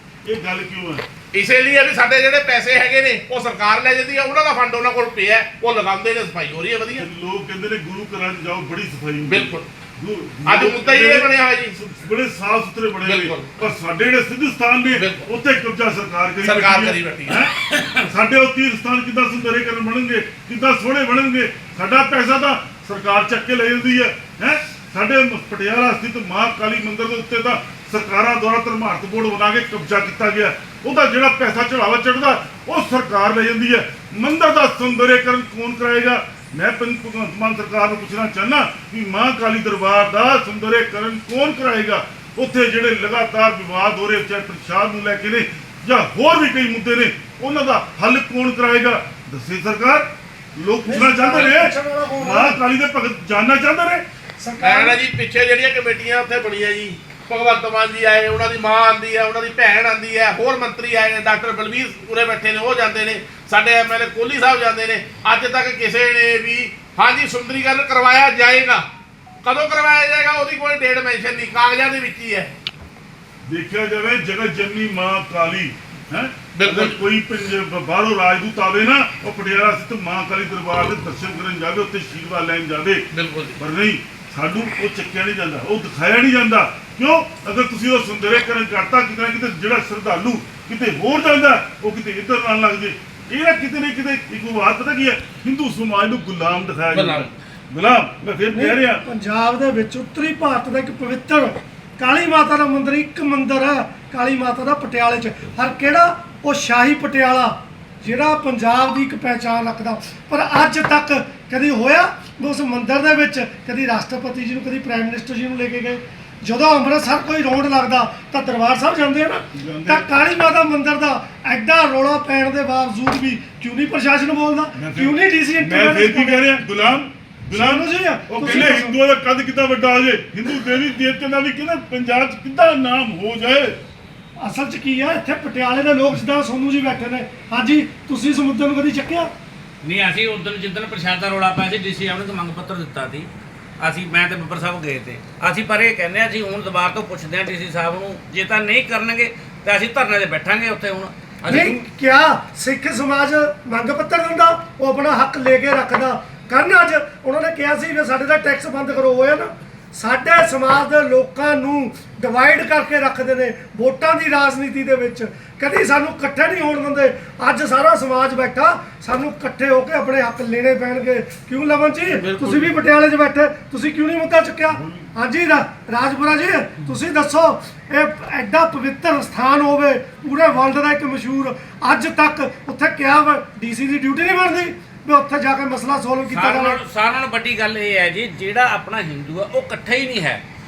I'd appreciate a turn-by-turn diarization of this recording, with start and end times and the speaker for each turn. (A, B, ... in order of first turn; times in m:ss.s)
0:00.2-0:01.0 A
0:01.3-0:07.0 B
0:07.0-0:17.5 A
0:09.3-0:09.7 B
0:10.5-0:11.8 B
0:13.0-0:13.5 B
0:15.0-0:15.3 B
0:16.4-0:17.4 B
0:18.1-0:54.0 A
0:50.8-0:52.6 C
0:54.4-0:55.0 C
0:54.6-1:08.8 B
1:09.4-1:12.5 B
1:13.4-1:23.0 A
1:16.6-1:17.0 B
1:23.1-1:23.6 B
1:23.6-1:39.0 A
1:36.9-1:37.3 B
1:38.5-2:06.5 C
1:59.5-2:00.1 A
2:04.8-2:13.8 A
2:07.5-2:09.0 C
2:14.4-2:19.3 C
2:19.8-2:23.3 D
2:23.8-2:31.8 D
2:31.5-3:06.8 C
2:54.7-2:55.1 A
3:06.3-3:10.4 D